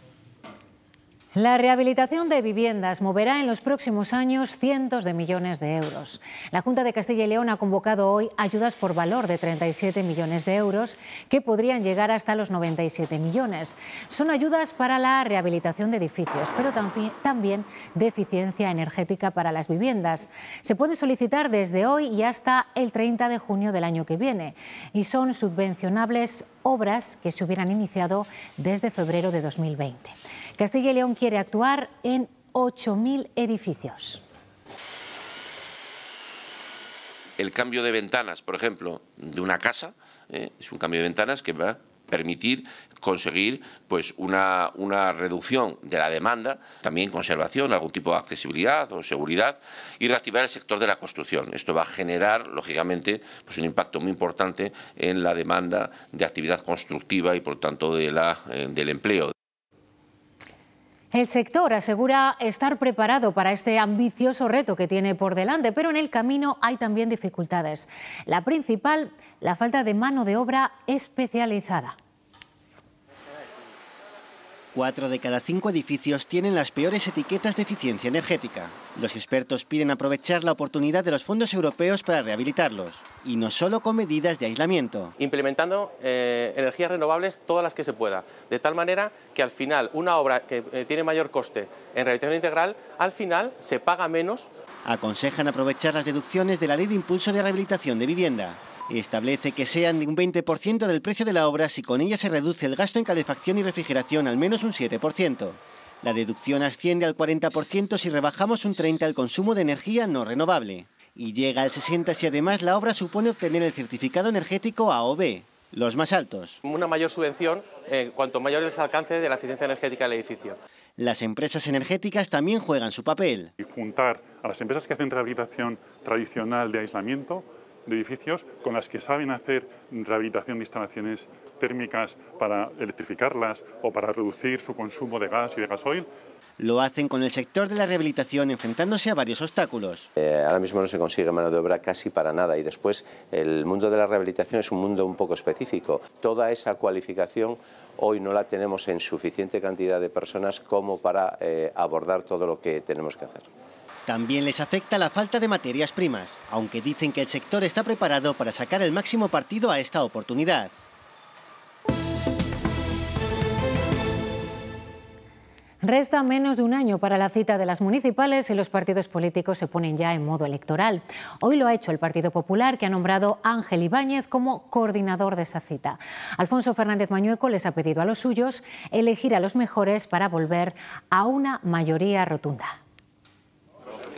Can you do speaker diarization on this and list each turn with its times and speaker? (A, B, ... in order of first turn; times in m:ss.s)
0:01.4-0:34.2 A
0:37.4-0:59.3 B
1:01.1-1:12.0 A
1:14.7-1:25.2 C
1:25.2-1:34.5 D
1:34.8-1:56.6 C
1:56.6-2:00.6 D
2:01.0-2:03.5 C
2:03.6-2:16.1 E
2:16.6-2:20.1 C
2:20.2-2:33.5 F
2:34.1-2:40.7 C
2:45.8-3:02.8 A